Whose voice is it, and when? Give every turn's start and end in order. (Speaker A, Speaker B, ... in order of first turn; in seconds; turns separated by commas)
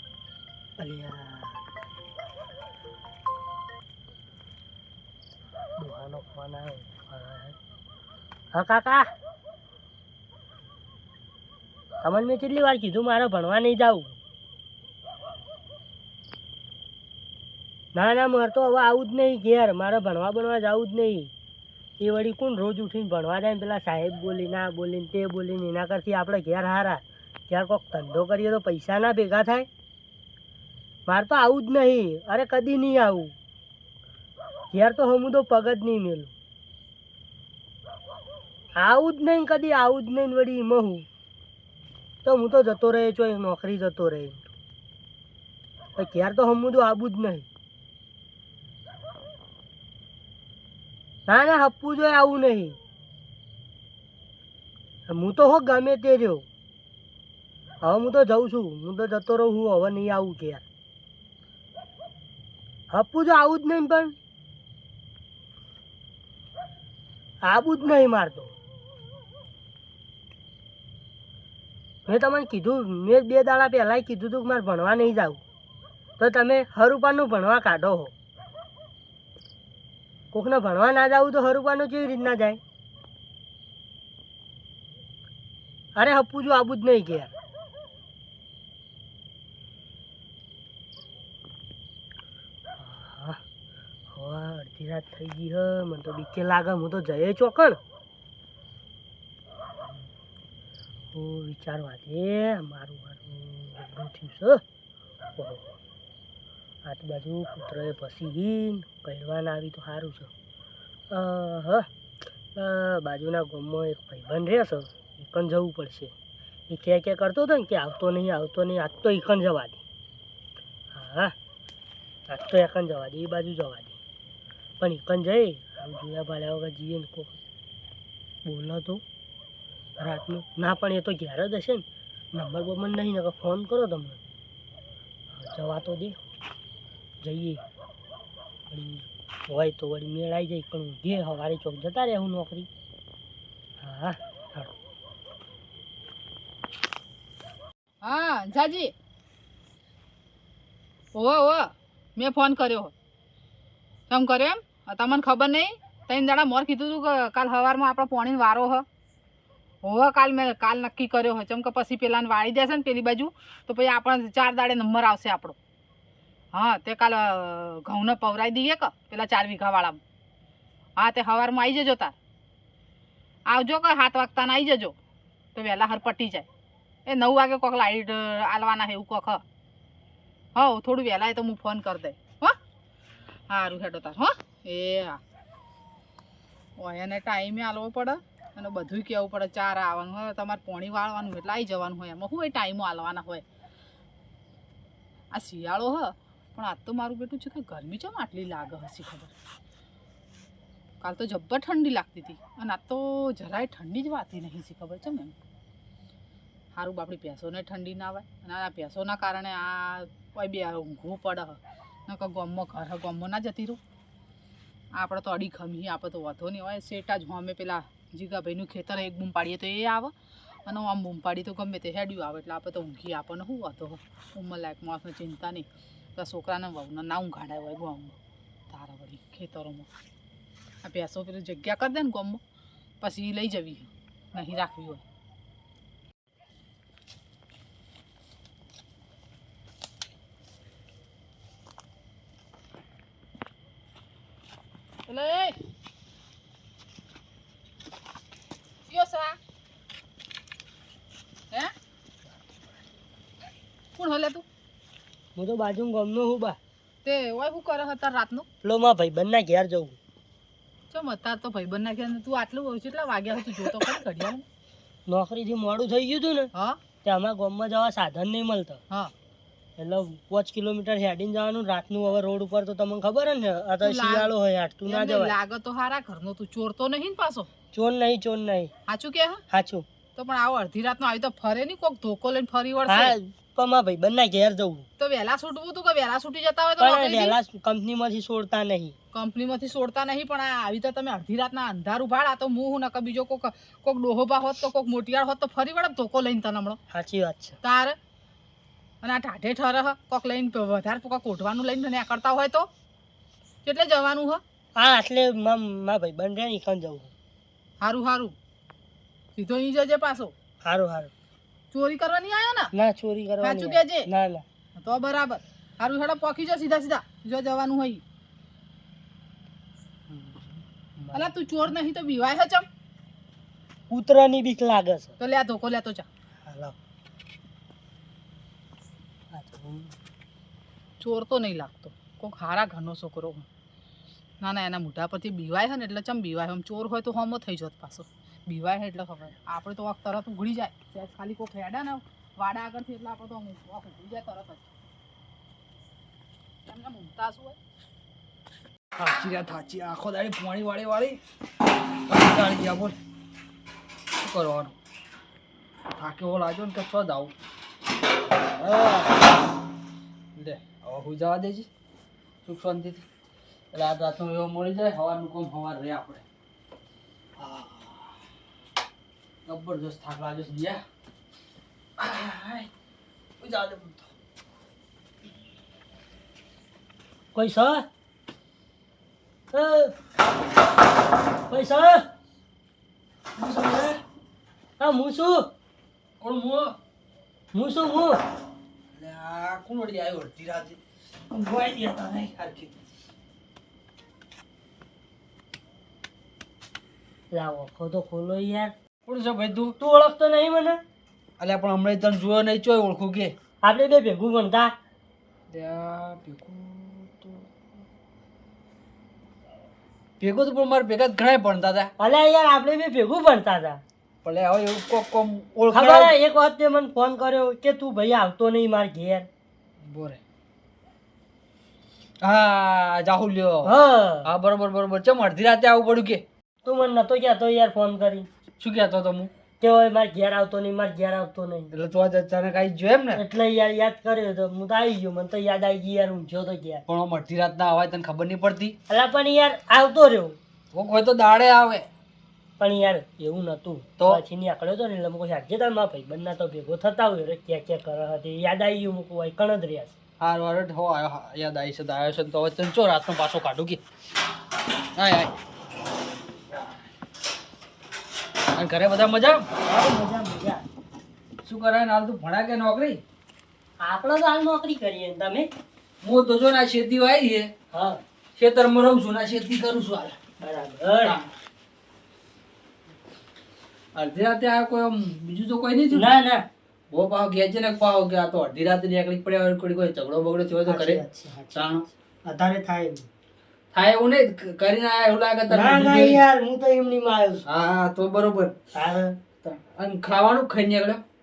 Speaker A: 0.8-1.7, Speaker A: 5.8-7.6, Speaker A: 8.5-9.1, Speaker A: 12.0-14.2, Speaker A: 17.9-21.3, Speaker A: 22.0-29.7, Speaker A: 31.1-33.4, Speaker A: 34.7-36.3, Speaker A: 38.8-41.1, Speaker A: 42.2-44.5, Speaker A: 46.0-47.5, Speaker A: 51.3-52.8, Speaker A: 55.1-56.5, Speaker A: 57.8-60.6, Speaker A: 62.9-64.2, Speaker A: 67.4-68.6, Speaker A: 72.1-75.4, Speaker A: 76.2-78.1, Speaker A: 80.3-82.6, Speaker A: 86.0-87.3, Speaker A: 92.8-93.4, Speaker A: 94.1-97.8, Speaker A: 101.1-104.6, Speaker A: 105.4-105.7, Speaker A: 106.8-110.3, Speaker A: 111.1-111.9, Speaker A: 112.5-116.1, Speaker A: 116.7-119.8, Speaker A: 120.9-121.3, Speaker A: 122.3-124.0, Speaker A: 124.8-127.4, Speaker A: 128.4-129.0, Speaker A: 130.0-134.2, Speaker A: 135.3-136.2, Speaker A: 137.2-137.6, Speaker A: 138.7-142.7, Speaker A: 143.8-144.7, Speaker B: 148.0-148.9, Speaker B: 151.2-152.9, Speaker B: 154.1-158.8, Speaker B: 159.8-165.6, Speaker B: 166.5-170.0, Speaker B: 171.0-172.2, Speaker B: 173.5-175.0, Speaker B: 175.6-176.5, Speaker B: 177.1-179.4, Speaker B: 180.6-182.6, Speaker B: 183.5-185.2, Speaker B: 186.8-193.4, Speaker B: 195.3-199.3, Speaker B: 201.0-205.3, Speaker B: 206.8-213.8, Speaker B: 214.9-220.1, Speaker B: 220.7-228.2, Speaker B: 228.7-229.9, Speaker B: 230.8-232.4, Speaker B: 233.0-235.0, Speaker B: 245.1-245.6, Speaker B: 248.9-249.4, Speaker B: 254.0-254.4, Speaker A: 255.3-256.6, Speaker B: 257.0-258.5, Speaker A: 258.6-260.0, Speaker B: 260.9-264.4, Speaker A: 265.1-266.5, Speaker B: 266.5-266.8, Speaker A: 267.0-268.8, Speaker A: 269.8-275.4, Speaker B: 273.8-274.3, Speaker B: 274.9-277.5, Speaker A: 277.7-278.7, Speaker B: 278.9-279.4, Speaker A: 279.5-279.9, Speaker B: 280.2-283.1, Speaker A: 282.9-284.9, Speaker B: 285.0-287.4, Speaker A: 286.8-289.0, Speaker B: 289.1-296.8, Speaker A: 296.9-297.6, Speaker B: 297.6-298.0, Speaker B: 299.0-302.7, Speaker B: 303.6-304.4, Speaker A: 304.8-307.1, Speaker B: 307.8-308.4, Speaker B: 309.4-310.3, Speaker A: 310.6-311.1, Speaker B: 311.7-312.7, Speaker A: 312.7-314.5, Speaker B: 313.4-314.1, Speaker B: 314.8-318.0, Speaker A: 321.0-321.3, Speaker B: 321.1-322.7, Speaker A: 323.9-325.2, Speaker B: 325.2-326.1, Speaker A: 326.4-326.8, Speaker A: 329.3-329.9, Speaker B: 331.0-333.5, Speaker B: 334.4-344.7, Speaker B: 346.7-347.6, Speaker C: 349.0-351.2, Speaker C: 352.1-353.0, Speaker C: 354.2-354.7, Speaker C: 356.0-357.3, Speaker C: 358.5-359.2, Speaker C: 360.4-361.7, Speaker C: 362.4-363.0, Speaker C: 363.7-366.2, Speaker C: 367.4-368.1, Speaker C: 369.5-370.8, Speaker C: 372.0-372.7, Speaker C: 373.4-374.1, Speaker A: 377.3-377.9, Speaker A: 379.5-380.0, Speaker A: 381.5-382.1, Speaker C: 383.4-384.0, Speaker A: 384.8-385.5, Speaker C: 386.2-386.7, Speaker A: 387.5-388.2, Speaker C: 388.9-390.8, Speaker C: 391.3-392.7, Speaker A: 397.3-398.7, Speaker C: 399.1-399.8, Speaker A: 399.8-400.8, Speaker C: 401.4-403.4, Speaker A: 403.6-404.7, Speaker C: 405.5-407.5, Speaker C: 410.2-411.9, Speaker A: 412.0-413.8, Speaker C: 414.2-416.1, Speaker A: 415.7-419.3, Speaker C: 419.9-420.2, Speaker C: 422.2-423.7, Speaker A: 423.6-424.3, Speaker C: 424.2-426.2, Speaker A: 426.6-428.3, Speaker C: 428.6-429.3, Speaker A: 429.6-431.7, Speaker C: 431.7-433.2, Speaker A: 433.1-436.9, Speaker C: 436.9-438.8, Speaker A: 438.9-440.4, Speaker C: 440.7-441.9, Speaker A: 442.6-449.9, Speaker C: 450.2-453.8, Speaker C: 455.0-455.4, Speaker C: 456.5-456.8, Speaker C: 458.6-459.5, Speaker A: 459.6-460.6, Speaker C: 461.4-463.0, Speaker A: 463.8-465.5, Speaker C: 466.0-467.5, Speaker A: 467.7-468.0, Speaker C: 468.4-470.2, Speaker A: 470.4-471.2, Speaker C: 471.0-471.3, Speaker C: 473.9-476.1, Speaker A: 475.9-476.4, Speaker C: 476.9-481.0, Speaker A: 480.6-483.1, Speaker C: 481.5-481.8, Speaker C: 483.7-486.2, Speaker A: 485.5-487.4, Speaker C: 487.5-488.6, Speaker A: 488.7-489.2, Speaker C: 489.4-491.0